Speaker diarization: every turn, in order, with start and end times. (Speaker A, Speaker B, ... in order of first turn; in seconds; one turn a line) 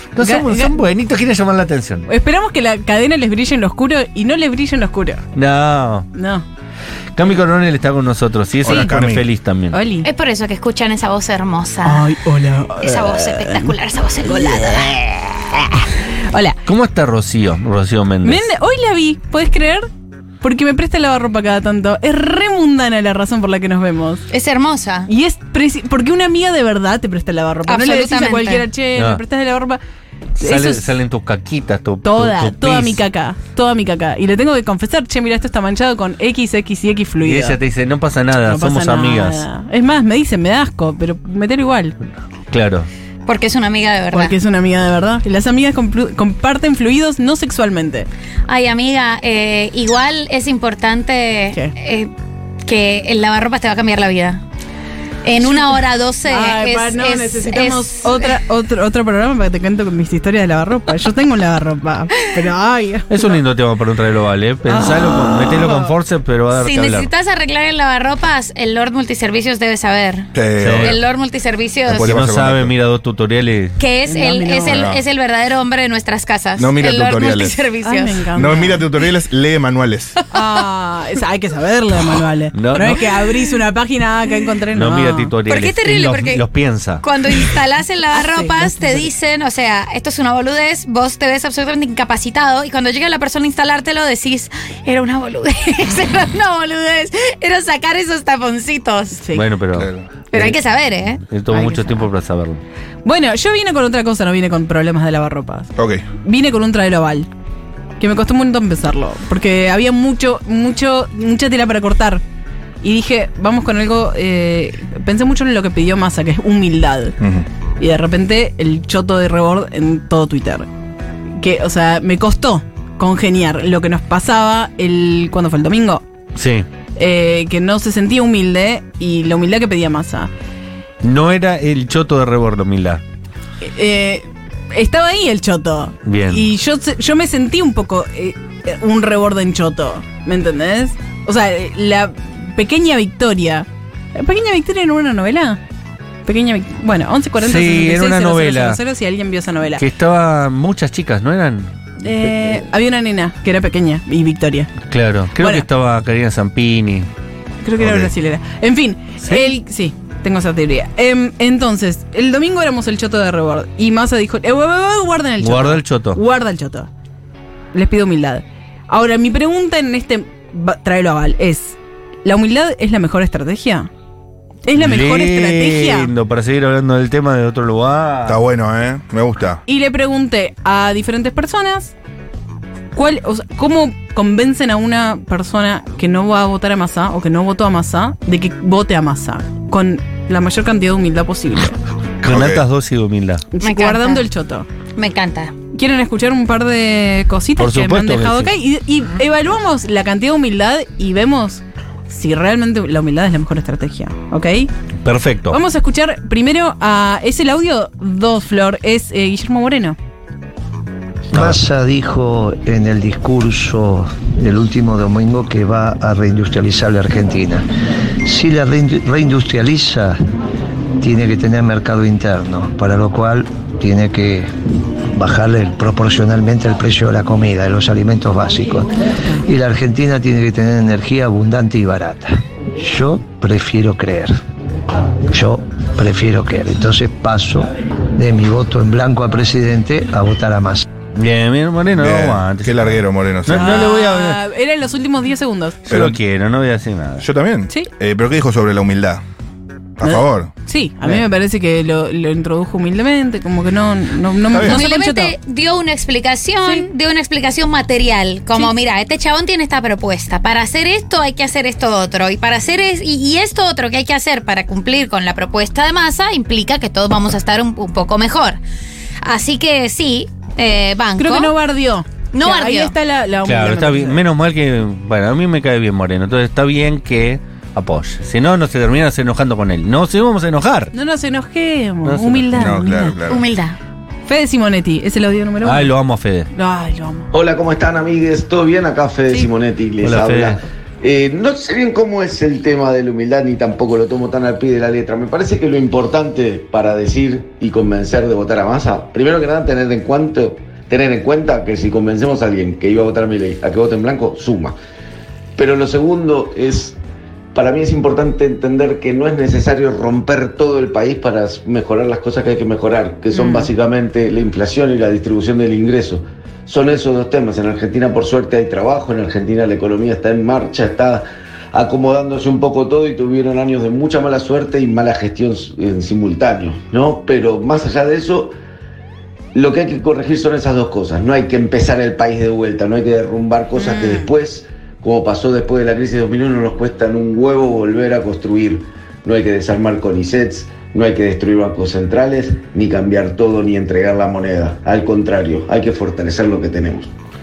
Speaker A: 0.1-2.0
Speaker B: 0.2-0.8
Speaker B: 2.0-5.2
Speaker A: 5.3-6.1
Speaker B: 6.1-6.4
Speaker A: 7.1-9.8
Speaker C: 8.6-9.2
Speaker B: 8.7-8.9
Speaker B: 9.7-10.1
Speaker D: 10.0-12.2
Speaker B: 11.8-16.6
Speaker D: 12.8-15.0
Speaker A: 16.6-18.5
Speaker B: 18.2-19.9
Speaker B: 20.4-24.3
Speaker D: 24.3-25.1
Speaker B: 25.1-29.8
Speaker D: 27.6-28.7
Speaker A: 28.9-29.2
Speaker A: 30.4-33.0
Speaker B: 30.4-30.9
Speaker B: 32.0-37.6
Speaker A: 37.2-39.4
Speaker B: 38.3-42.0
Speaker A: 42.5-42.9
Speaker D: 43.2-44.4
Speaker B: 44.1-48.1
Speaker D: 48.5-52.1
Speaker D: 52.6-54.4
Speaker D: 55.2-58.3
Speaker B: 55.4-63.4
Speaker A: 63.1-67.1
Speaker B: 64.7-65.9
Speaker D: 66.5-72.1
Speaker C: 70.3-71.0
Speaker A: 70.6-71.0
Speaker C: 71.9-72.7
Speaker A: 72.0-73.8
Speaker D: 73.8-78.5
Speaker B: 74.0-74.8
Speaker C: 74.7-75.0
Speaker C: 76.6-77.7
Speaker B: 77.8-78.8
Speaker C: 78.3-80.2
Speaker B: 80.3-85.3
Speaker A: 82.5-83.0
Speaker A: 84.7-87.0
Speaker D: 85.5-86.5
Speaker D: 87.0-99.2
Speaker B: 88.1-89.1
Speaker B: 99.2-99.5
Speaker A: 99.3-100.6
Speaker C: 99.7-100.1
Speaker D: 100.3-101.2
Speaker A: 101.3-102.6
Speaker B: 101.5-102.1
Speaker B: 103.0-105.7
Speaker C: 105.8-106.0
Speaker B: 106.2-107.3
Speaker B: 108.0-112.2
Speaker B: 112.8-117.2
Speaker B: 117.8-120.7
Speaker B: 121.4-126.0
Speaker A: 126.3-126.7
Speaker B: 127.0-130.3
Speaker A: 131.0-133.0
Speaker B: 133.6-145.6
Speaker A: 136.0-136.5
Speaker B: 146.2-149.8
Speaker A: 147.4-148.8
Speaker A: 149.8-151.7
Speaker B: 152.0-154.8
Speaker A: 154.8-157.1
Speaker B: 155.3-155.7
Speaker B: 157.6-166.9
Speaker A: 159.2-159.5
Speaker A: 165.4-166.2
Speaker B: 167.7-173.9
Speaker B: 174.6-176.1
Speaker A: 174.8-178.4
Speaker C: 178.3-179.6
Speaker B: 179.7-181.9
Speaker B: 182.9-191.8
Speaker A: 192.2-193.4
Speaker C: 192.3-192.6
Speaker B: 193.5-194.7
Speaker D: 193.6-194.2
Speaker D: 194.9-195.5
Speaker B: 195.7-204.7
Speaker A: 197.6-198.5
Speaker A: 205.0-205.6
Speaker B: 205.5-209.9
Speaker E: 211.3-217.6
Speaker E: 218.2-220.1
Speaker E: 221.0-224.5
Speaker E: 225.1-234.3
Speaker E: 235.3-240.8
Speaker A: 241.1-244.4
Speaker C: 241.9-243.7
Speaker B: 243.5-245.8
Speaker A: 245.8-247.2
Speaker C: 245.9-246.2
Speaker C: 247.2-249.2
Speaker C: 250.0-250.5
Speaker B: 250.0-255.3
Speaker C: 254.5-254.8
Speaker D: 254.6-268.6
Speaker B: 256.6-256.9
Speaker D: 269.2-271.6
Speaker B: 271.2-274.2
Speaker D: 272.3-272.9
Speaker A: 273.4-280.9
Speaker B: 280.9-283.2
Speaker A: 282.0-282.8
Speaker C: 282.6-283.4
Speaker D: 283.3-283.8
Speaker B: 284.2-285.9
Speaker A: 285.6-286.5
Speaker B: 286.5-287.3
Speaker F: 287.3-304.8
Speaker A: 290.0-290.6
Speaker F: 305.6-307.0
Speaker F: 307.5-328.5
Speaker B: 313.3-313.6
Speaker F: 329.5-347.1
Speaker B: 333.7-334.3